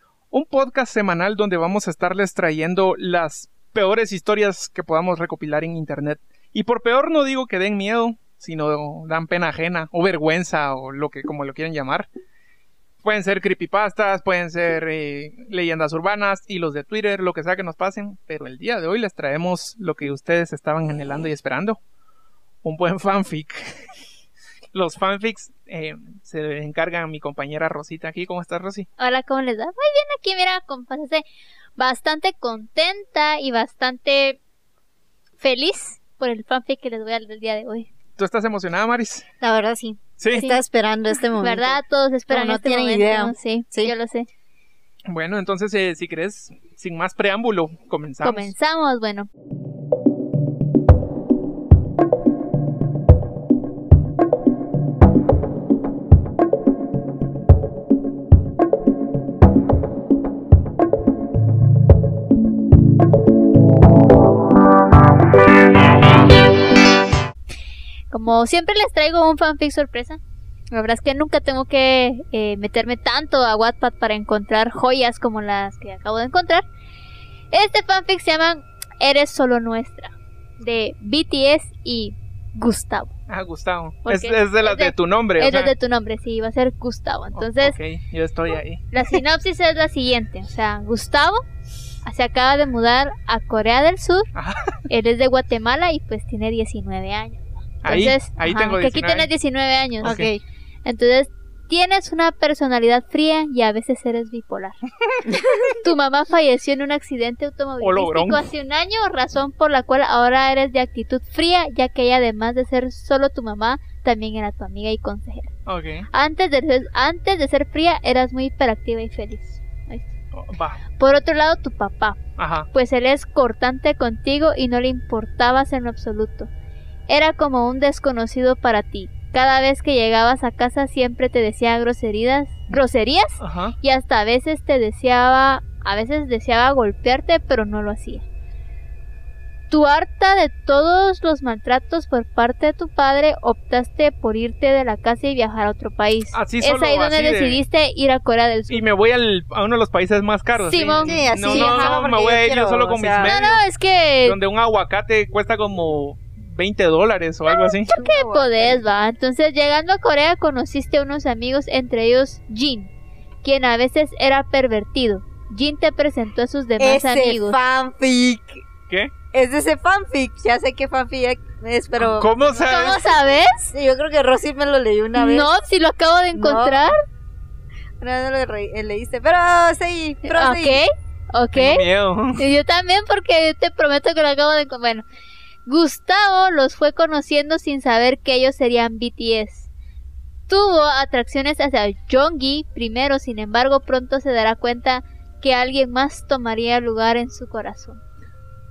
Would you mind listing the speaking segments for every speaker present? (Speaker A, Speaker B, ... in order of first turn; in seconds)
Speaker A: 0.3-12.1, 13.0-21.8, 22.6-23.9, 24.7-28.9, 38.2-39.3, 40.2-40.5, 45.1-48.5, 83.3-85.7, 87.3-88.8, 94.3-94.8, 97.8-99.3, 100.0-100.3, 107.8-108.5, 115.7-116.1, 120.3-120.8, 122.4-122.7, 133.4-133.8, 146.3-147.6, 148.7-153.6, 154.2-157.9, 172.0-173.1, 181.5-182.5
Speaker B: 29.0-31.2, 31.8-34.4, 35.4-37.9, 41.4-44.3, 48.2-49.3, 68.1-70.2, 70.7-76.7, 77.5-83.1, 84.1-87.8, 88.9-91.4, 92.0-94.3, 94.9-100.2, 100.8-104.8, 105.6-115.5, 116.1-120.2, 121.0-122.2, 122.7-126.5, 127.1-138.2, 139.7-148.8, 150.6-151.9, 153.2-154.4, 157.9-162.9, 163.4-167.6, 172.7-173.7, 175.2-177.0, 180.3-181.9, 182.4-185.0, 185.7-189.7, 190.5-198.0
Speaker C: 39.4-43.9, 100.0-100.4, 151.0-153.3, 157.9-158.8, 166.8-168.6, 169.3-173.1, 173.7-175.5, 176.3-176.9, 178.0-180.8